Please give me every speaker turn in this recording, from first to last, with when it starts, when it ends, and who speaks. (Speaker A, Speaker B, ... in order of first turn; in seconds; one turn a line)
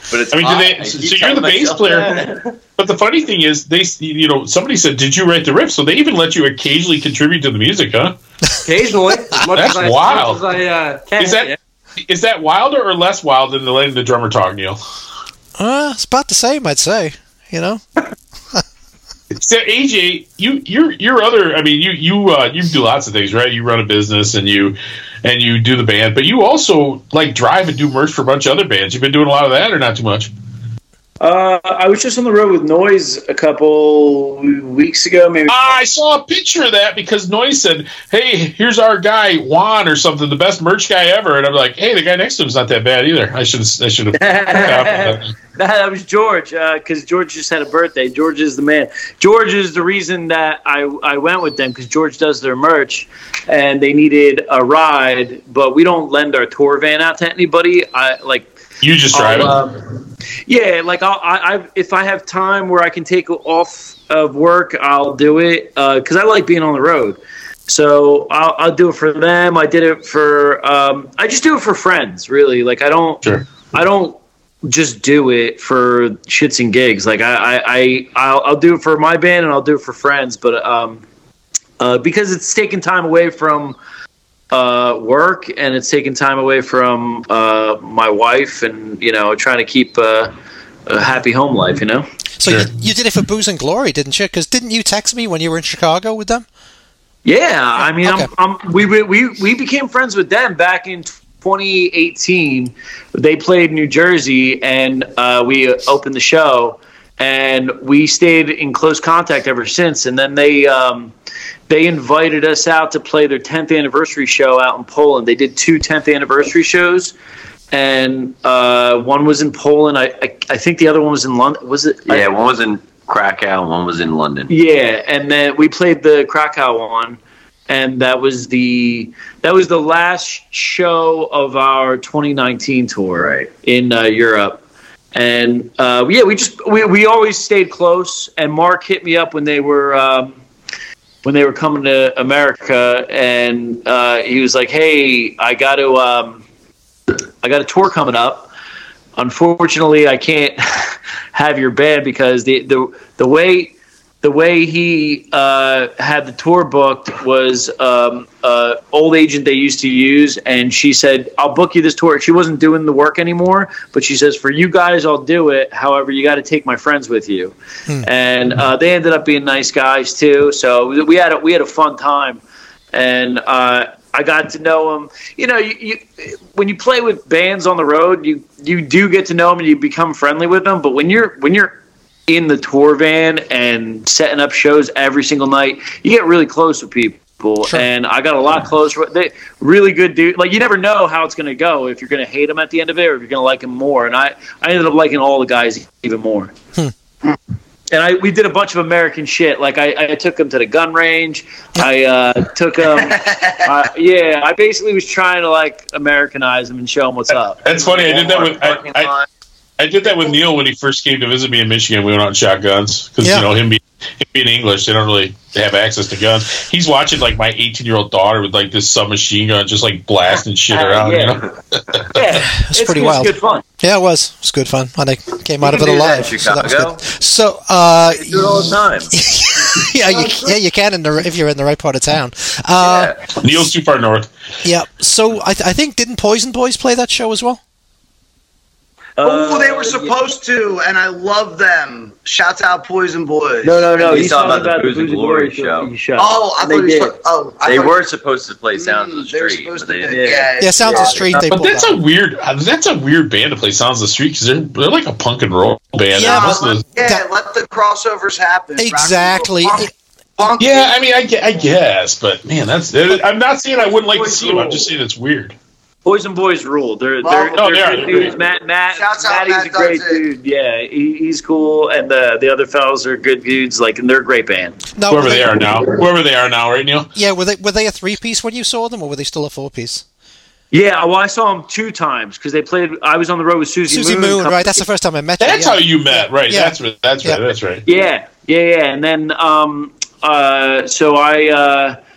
Speaker A: 0.1-2.5
Speaker B: 0.3-8.2
Speaker C: 8.7-11.6
Speaker B: 9.5-10.4
Speaker B: 11.2-14.8
Speaker D: 15.6-17.8
Speaker B: 19.3-30.3
Speaker E: 31.2-35.8
Speaker B: 35.5-45.3
Speaker E: 44.2-58.5
Speaker B: 58.8-59.6
Speaker E: 59.1-59.9
Speaker E: 60.5-81.0
Speaker E: 81.8-83.8
Speaker E: 84.5-90.3
Speaker E: 90.9-92.0
Speaker D: 92.4-96.5
Speaker E: 97.2-111.1
Speaker D: 98.0-98.3
Speaker E: 111.7-117.1
Speaker E: 117.7-122.3
Speaker A: 122.1-124.5
Speaker E: 124.5-134.6
Speaker E: 135.1-140.4
Speaker E: 141.2-146.4
Speaker E: 147.4-148.5
Speaker E: 149.2-172.4
Speaker E: 172.9-196.5
Speaker E: 197.9-207.6
Speaker F: 203.0-203.6
Speaker B: 207.6-209.1
Speaker A: 207.7-209.3
Speaker B: 209.8-222.2
Speaker D: 213.2-213.5
Speaker E: 220.7-221.4
Speaker E: 222.1-223.6
Speaker D: 222.4-233.2
Speaker A: 225.6-227.0
Speaker A: 228.1-229.1
Speaker A: 232.8-233.2
Speaker B: 233.4-234.3
Speaker D: 234.6-237.6
Speaker E: 239.2-240.2
Speaker F: 239.2-243.9
Speaker E: 243.6-247.2
Speaker A: 244.0-245.9
Speaker F: 246.2-248.1
Speaker A: 247.6-251.1
Speaker F: 248.8-251.4
Speaker E: 250.1-250.5
Speaker D: 250.6-252.0
Speaker B: 251.5-256.8
Speaker D: 256.1-257.2
Speaker F: 256.2-260.9
Speaker D: 258.8-259.9
Speaker B: 260.6-265.6
Speaker F: 264.5-264.8
Speaker E: 266.1-274.8
Speaker F: 267.2-268.3
Speaker B: 267.6-268.3
Speaker F: 268.9-270.2
Speaker D: 274.9-275.9
Speaker B: 275.1-277.1
Speaker D: 277.1-280.0
Speaker E: 280.7-284.9
Speaker D: 283.9-287.4
Speaker B: 285.4-287.8
Speaker E: 287.9-292.0